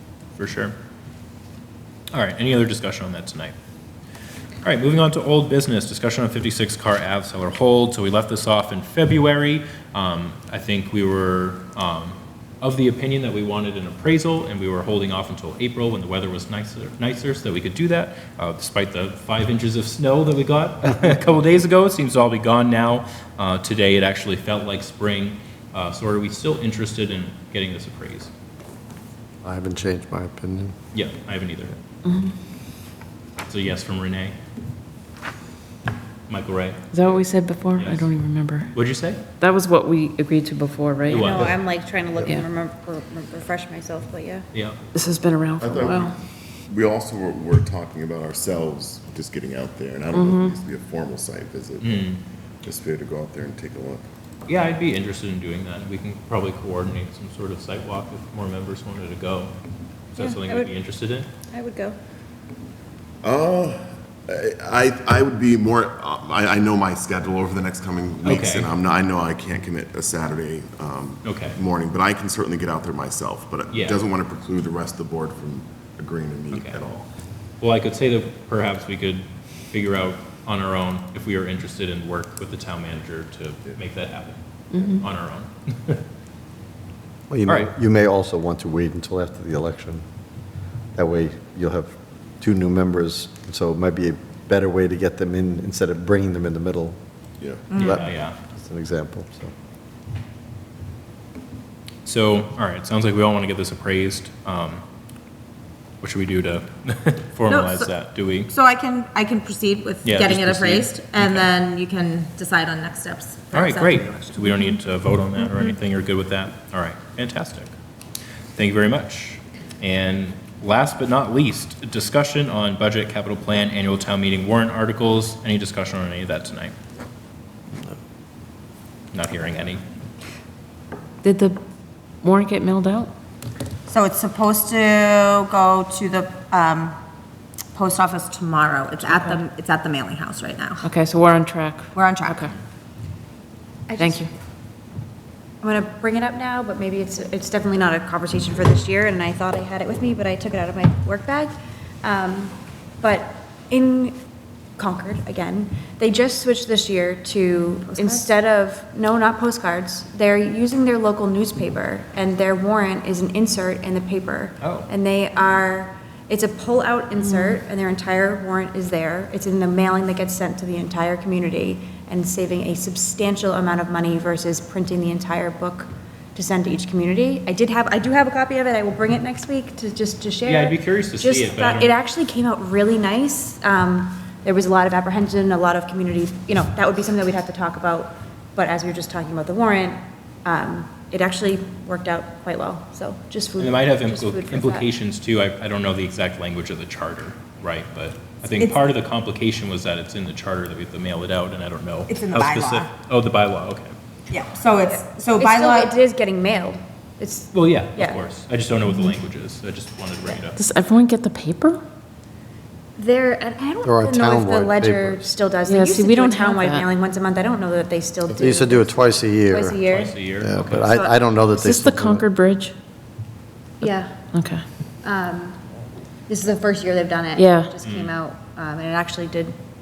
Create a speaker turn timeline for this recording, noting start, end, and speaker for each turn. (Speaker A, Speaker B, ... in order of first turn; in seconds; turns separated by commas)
Speaker A: 0.3-0.7, Speaker A: 2.1-3.5, Speaker A: 4.6-28.3, Speaker B: 29.4-30.7, Speaker A: 30.9-31.7, Speaker C: 32.0-32.3, Speaker A: 33.5-34.3, Speaker A: 36.3-36.8, Speaker C: 36.9-38.7, Speaker A: 37.8-38.1, Speaker A: 38.7-39.2, Speaker C: 39.4-41.3, Speaker A: 41.1-41.6, Speaker D: 41.1-44.5, Speaker C: 44.9-46.1, Speaker E: 45.6-46.1, Speaker E: 46.7-52.1, Speaker C: 50.2-50.5, Speaker A: 51.8-52.2, Speaker E: 52.6-54.0, Speaker A: 54.5-59.5, Speaker A: 60.1-61.3, Speaker D: 60.2-60.7, Speaker D: 61.5-62.0, Speaker E: 63.2-77.1, Speaker A: 68.2-68.7, Speaker A: 71.2-71.6, Speaker A: 73.7-74.0, Speaker A: 76.5-76.8, Speaker A: 77.6-86.0, Speaker C: 84.7-85.0, Speaker B: 87.3-90.0, Speaker B: 90.9-97.0, Speaker E: 97.4-97.7, Speaker F: 97.7-98.0, Speaker B: 97.8-99.5, Speaker A: 97.8-98.4, Speaker A: 102.0-104.8, Speaker A: 106.0-108.5, Speaker F: 107.5-107.9, Speaker F: 108.5-114.6, Speaker A: 110.0-111.5, Speaker A: 113.5-117.7, Speaker A: 118.5-126.7, Speaker A: 129.1-129.8, Speaker C: 131.2-131.6, Speaker C: 132.2-133.1, Speaker F: 133.9-137.0, Speaker F: 137.7-140.8, Speaker C: 140.8-142.5, Speaker F: 141.9-142.5, Speaker D: 143.9-144.2, Speaker C: 144.0-144.3, Speaker D: 145.6-154.2, Speaker D: 154.8-194.9, Speaker F: 157.9-158.2, Speaker A: 164.6-164.9, Speaker F: 167.2-167.6, Speaker A: 180.4-181.9, Speaker A: 193.6-203.9, Speaker F: 202.1-202.9, Speaker F: 204.3-205.9, Speaker D: 204.9-208.2, Speaker A: 207.5-210.6, Speaker C: 210.6-211.8, Speaker D: 213.0-220.2, Speaker B: 213.8-215.3, Speaker C: 215.6-216.9, Speaker B: 218.3-219.8, Speaker A: 219.8-220.9, Speaker B: 220.4-222.3, Speaker D: 220.7-221.1, Speaker C: 221.6-222.7, Speaker D: 223.8-224.2, Speaker C: 224.3-224.6, Speaker D: 225.0-225.6, Speaker D: 226.3-229.6, Speaker C: 227.3-227.7, Speaker A: 227.8-228.2